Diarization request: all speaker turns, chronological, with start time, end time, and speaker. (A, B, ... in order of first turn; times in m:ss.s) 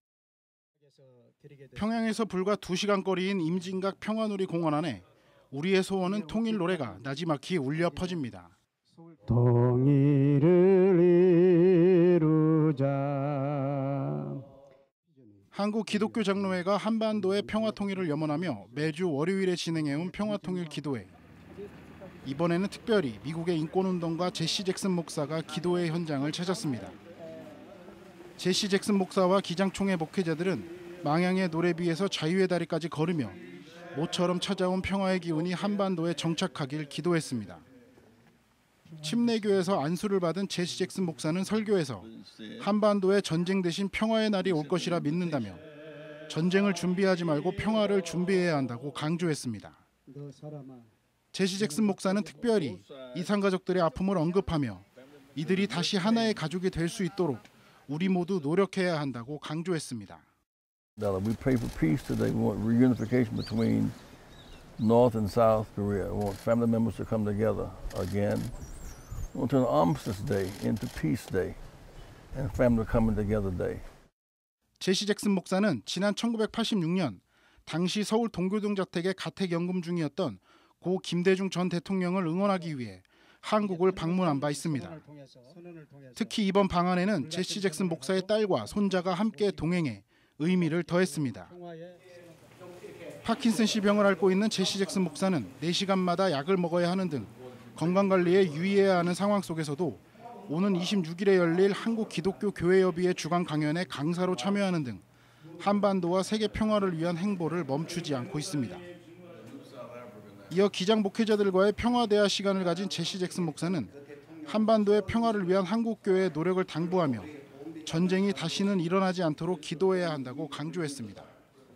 0:01.2-0:01.7 A
0:01.8-0:08.5 B
0:09.3-0:14.0 A
0:15.5-0:21.1 B
0:22.2-0:27.0 B
0:28.4-0:33.4 B
0:33.9-0:37.6 B
0:39.0-0:45.6 B
0:46.3-0:49.8 B
0:50.2-0:50.9 A
0:51.3-1:00.2 B
1:01.0-1:04.0 C
1:04.8-1:08.6 C
1:09.3-1:11.6 C
1:12.3-1:13.8 C
1:14.8-1:25.0 B
1:24.4-1:26.1 A
1:26.2-1:31.5 B
1:31.5-1:32.1 A
1:33.2-1:45.0 B
1:45.6-1:48.9 B
1:50.5-1:54.0 B
1:54.5-1:57.3 B
1:57.8-2:01.3 B